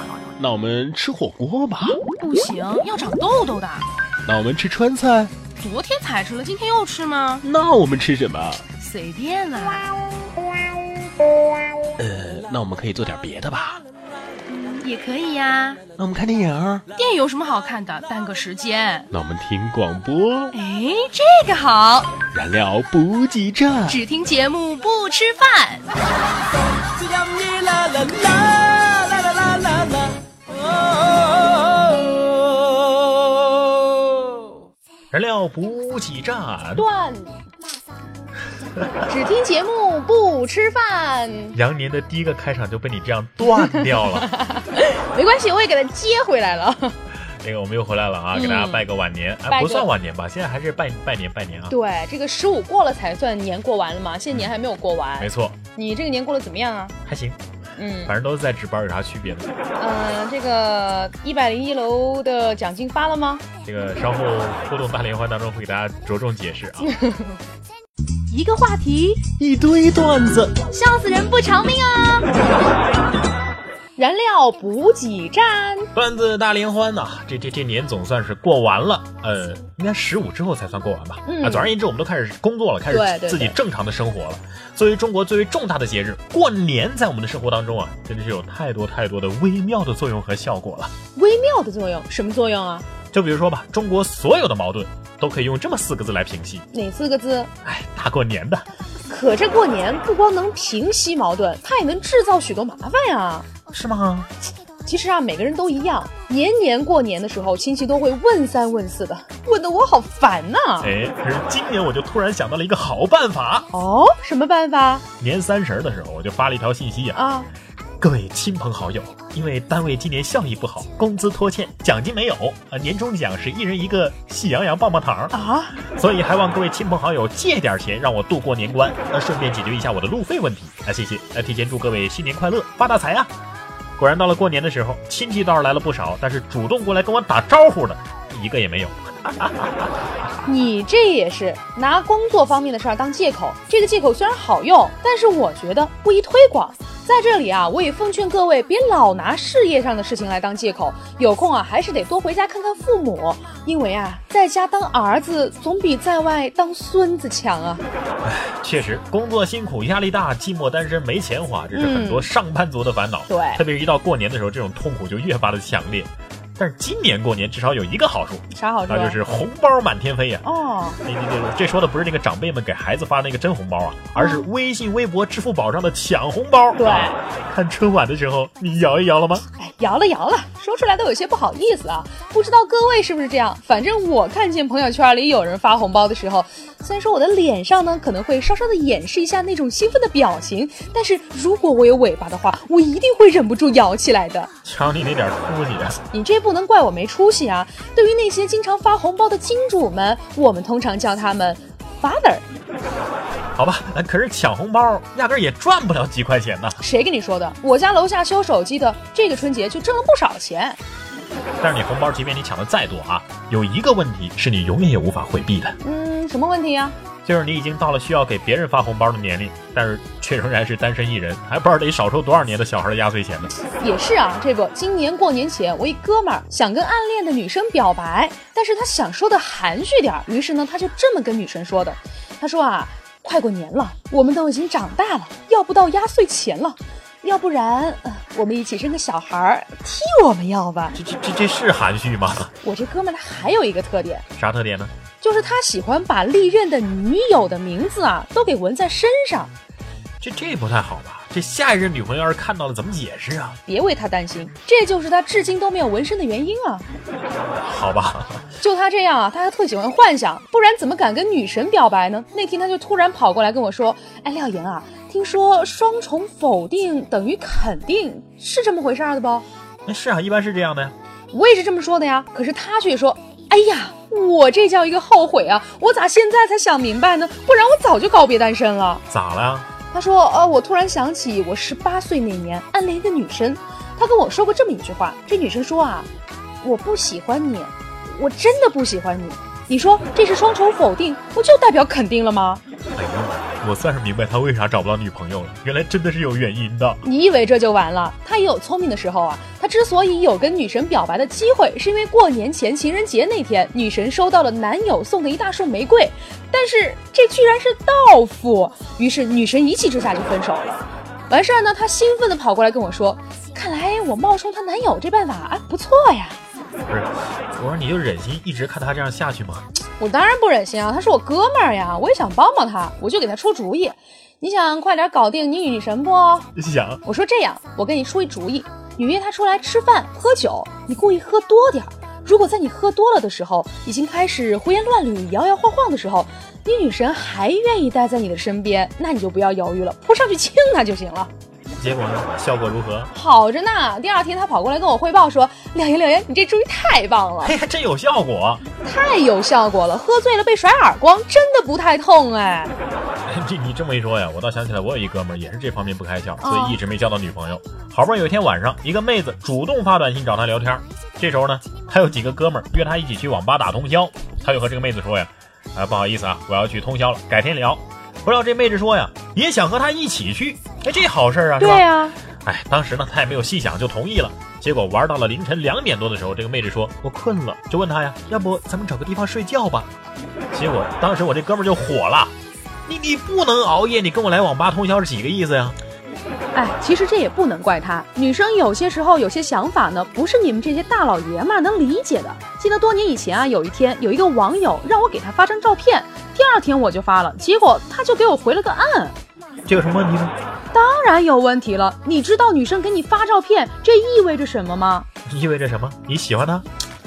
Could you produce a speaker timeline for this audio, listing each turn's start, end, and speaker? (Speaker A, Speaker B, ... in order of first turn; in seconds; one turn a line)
Speaker A: 0.4-2.0
Speaker B: 2.1-3.9
Speaker A: 4.2-5.3
Speaker B: 5.5-7.4
Speaker A: 7.4-8.6
Speaker B: 8.8-9.9
Speaker A: 12.0-13.8
Speaker B: 14.5-15.8
Speaker A: 16.0-16.8
Speaker B: 16.9-19.1
Speaker A: 19.1-20.5
Speaker B: 20.5-22.1
Speaker A: 22.3-24.0
Speaker B: 23.9-25.8
Speaker A: 27.3-29.9
Speaker A: 35.1-36.9
Speaker B: 36.8-37.4
Speaker B: 39.1-41.5
Speaker A: 41.5-44.3
Speaker B: 43.5-47.0
Speaker A: 47.4-51.7
Speaker B: 48.3-48.9
Speaker B: 49.5-49.9
Speaker B: 51.7-56.9
Speaker A: 55.2-55.6
Speaker A: 57.0-57.4
Speaker B: 57.8-58.1
Speaker A: 58.1-59.5
Speaker B: 59.8-63.5
Speaker A: 63.6-66.9
Speaker B: 66.8-67.3
Speaker B: 68.3-69.2
Speaker A: 69.4-70.5
Speaker B: 70.7-72.3
Speaker B: 74.0-75.9
Speaker A: 75.9-90.9
Speaker B: 81.2-81.7
Speaker B: 82.9-83.5
Speaker B: 91.2-92.9
Speaker A: 93.1-96.7
Speaker B: 96.7-97.5
Speaker A: 97.6-98.7
Speaker B: 99.1-103.5
Speaker A: 103.7-104.3
Speaker B: 104.8-111.0
Speaker A: 110.8-113.7
Speaker B: 113.7-115.0
Speaker A: 115.2-117.2
Speaker B: 117.1-117.5
Speaker A: 118.0-125.3
Speaker B: 125.3-125.8
Speaker A: 125.9-133.3
Speaker A: 134.0-140.4
Speaker B: 140.4-157.8
Speaker A: 158.2-170.4
Speaker B: 161.7-162.3
Speaker B: 163.3-163.6
Speaker B: 168.5-169.2
Speaker B: 170.4-171.0
Speaker A: 171.0-179.4
Speaker B: 174.1-174.5
Speaker B: 176.8-177.2
Speaker B: 179.6-194.5
Speaker A: 194.6-196.0
Speaker B: 196.1-202.4
Speaker A: 203.6-206.8
Speaker B: 206.8-210.8
Speaker A: 211.6-215.8
Speaker B: 215.8-216.9
Speaker A: 217.2-223.5
Speaker B: 223.8-241.0
Speaker A: 240.9-242.5
Speaker B: 242.6-244.2
Speaker A: 244.3-244.9
Speaker B: 245.2-249.5
Speaker A: 250.2-253.6
Speaker B: 253.7-256.9
Speaker A: 257.6-258.5
Speaker B: 258.6-269.4
Speaker A: 269.9-270.9
Speaker B: 271.3-279.0
Speaker A: 279.1-279.7
Speaker B: 279.9-286.1
Speaker B: 286.6-292.6
Speaker A: 292.9-297.0
Speaker B: 297.0-316.4
Speaker A: 316.9-319.7
Speaker B: 320.0-326.5
Speaker A: 326.5-327.0
Speaker B: 327.0-341.3
Speaker A: 341.8-343.1
Speaker B: 343.1-347.6
Speaker A: 347.4-348.6
Speaker B: 348.8-352.7
Speaker A: 353.2-371.9
Speaker B: 356.4-356.8
Speaker B: 371.6-372.2
Speaker A: 372.4-379.9
Speaker A: 380.5-382.3
Speaker A: 382.9-385.8
Speaker B: 386.5-399.1
Speaker A: 399.7-400.3
Speaker B: 400.7-405.1
Speaker A: 405.2-406.6